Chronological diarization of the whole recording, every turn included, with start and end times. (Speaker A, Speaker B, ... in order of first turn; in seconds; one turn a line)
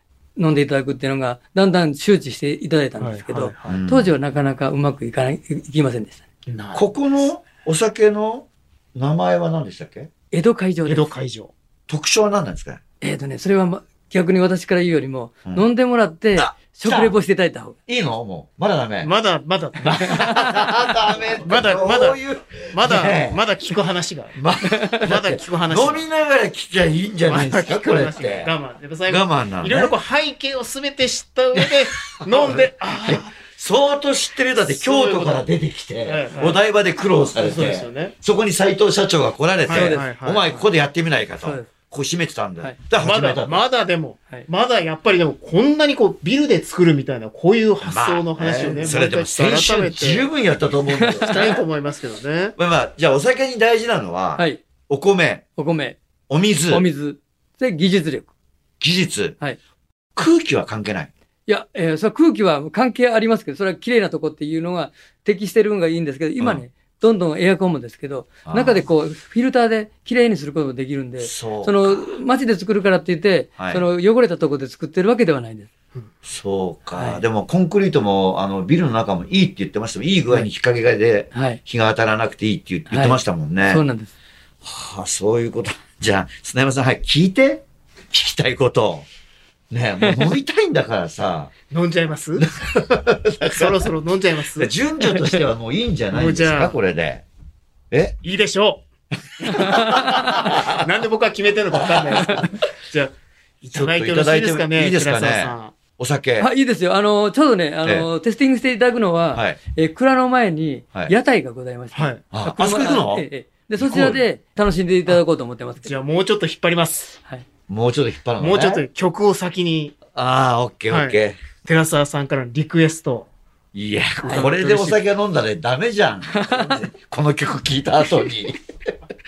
Speaker A: 0.4-6.2
Speaker B: 3.0-3.8
Speaker C: 3.6-4.1
Speaker B: 6.5-6.9
Speaker C: 6.7-10.1
Speaker A: 10.3-11.1
Speaker B: 10.8-11.5
Speaker C: 11.9-12.8
Speaker A: 13.0-17.8
Speaker C: 16.4-17.1
Speaker C: 17.9-19.1
Speaker B: 19.0-22.2
Speaker C: 19.8-23.4
Speaker B: 22.7-26.0
Speaker C: 24.4-28.5
Speaker A: 24.7-25.0
Speaker B: 27.3-33.3
Speaker C: 29.1-29.9
Speaker C: 31.6-43.6
Speaker B: 34.6-35.5
Speaker B: 36.0-36.6
Speaker B: 37.4-38.1
Speaker B: 39.7-40.6
Speaker A: 39.7-40.1
Speaker A: 41.4-41.7
Speaker B: 43.0-50.3
Speaker C: 47.8-51.6
Speaker A: 50.9-51.6
Speaker B: 51.2-52.6
Speaker C: 52.6-55.4
Speaker A: 54.4-54.6
Speaker A: 55.6-56.0
Speaker C: 56.3-56.9
Speaker A: 56.7-58.3
Speaker C: 58.8-59.4
Speaker C: 60.2-61.1
Speaker A: 61.5-75.7
Speaker C: 68.5-68.8
Speaker C: 71.2-72.1
Speaker C: 73.6-73.8
Speaker C: 76.2-83.8
Speaker A: 77.0-77.2
Speaker A: 81.3-81.6
Speaker A: 82.9-84.1
Speaker C: 84.6-89.1
Speaker C: 89.7-91.5
Speaker B: 91.7-92.5
Speaker C: 92.4-93.9
Speaker B: 93.4-94.7
Speaker C: 94.6-97.2
Speaker B: 96.1-96.8
Speaker C: 97.9-98.2
Speaker B: 98.2-98.9
Speaker C: 99.4-100.9
Speaker A: 99.4-100.4
Speaker B: 99.5-105.8
Speaker C: 101.8-102.5
Speaker A: 102.0-102.5
Speaker C: 103.7-106.5
Speaker A: 106.4-116.0
Speaker B: 112.0-112.2
Speaker C: 112.3-113.2
Speaker C: 113.8-114.2
Speaker B: 115.8-117.1
Speaker C: 117.7-118.9
Speaker B: 118.4-120.0
Speaker C: 120.1-121.4
Speaker B: 120.9-123.3
Speaker C: 123.7-128.6
Speaker A: 124.2-124.8
Speaker B: 124.3-125.0
Speaker A: 126.3-126.8